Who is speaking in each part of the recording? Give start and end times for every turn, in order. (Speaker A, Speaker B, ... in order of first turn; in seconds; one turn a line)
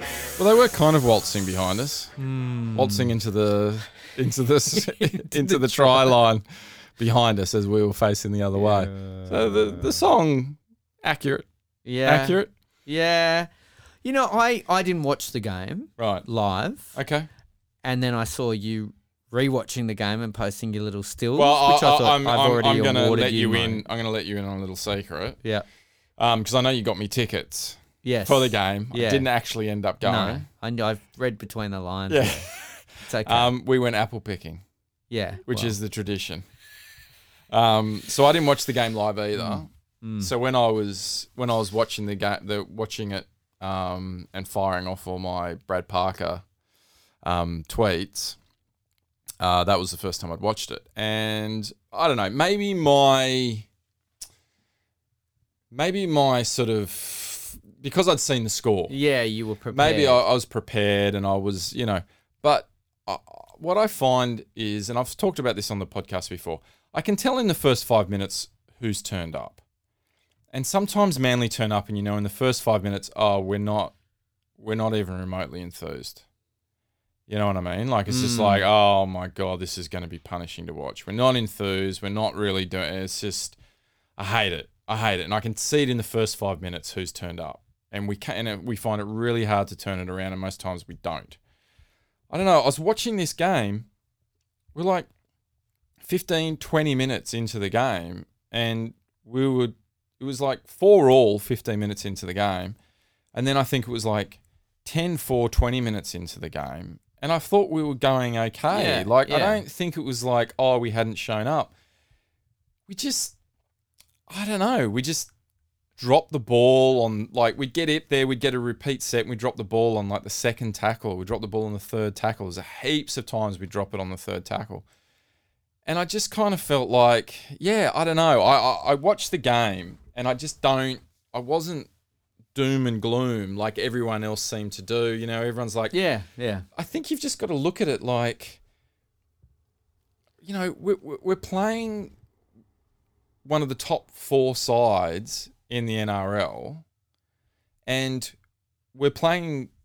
Speaker A: 0.4-2.1
Speaker B: 2.2-3.1
Speaker A: 2.7-6.5
Speaker B: 4.7-6.2
Speaker A: 7.0-11.5
Speaker B: 8.6-10.0
Speaker B: 11.8-13.5
Speaker A: 12.1-12.5
Speaker B: 14.0-17.0
Speaker A: 16.0-16.3
Speaker A: 16.9-17.3
Speaker B: 17.8-23.8
Speaker A: 21.4-25.4
Speaker A: 26.2-30.5
Speaker B: 28.0-29.3
Speaker B: 30.0-32.5
Speaker A: 32.1-34.6
Speaker B: 33.0-33.5
Speaker B: 35.1-35.8
Speaker A: 35.5-36.5
Speaker A: 37.5-39.7
Speaker B: 39.4-40.3
Speaker A: 40.2-46.4
Speaker A: 47.2-48.4
Speaker A: 49.4-53.7
Speaker A: 55.7-58.9
Speaker B: 58.9-60.2
Speaker A: 59.7-69.6
Speaker A: 70.5-73.9
Speaker A: 74.6-76.2
Speaker A: 77.3-83.6
Speaker B: 78.1-78.6
Speaker A: 84.2-91.4
Speaker A: 92.3-93.9
Speaker A: 94.8-95.1
Speaker A: 96.0-102.8
Speaker A: 103.3-111.7
Speaker B: 108.7-109.6
Speaker A: 112.9-113.4
Speaker A: 114.3-115.3
Speaker A: 116.0-124.9
Speaker A: 125.9-131.9
Speaker A: 132.6-135.9
Speaker B: 135.9-136.7
Speaker A: 136.8-138.6
Speaker A: 140.4-142.1
Speaker A: 143.4-146.8
Speaker A: 147.9-148.3
Speaker A: 148.9-149.7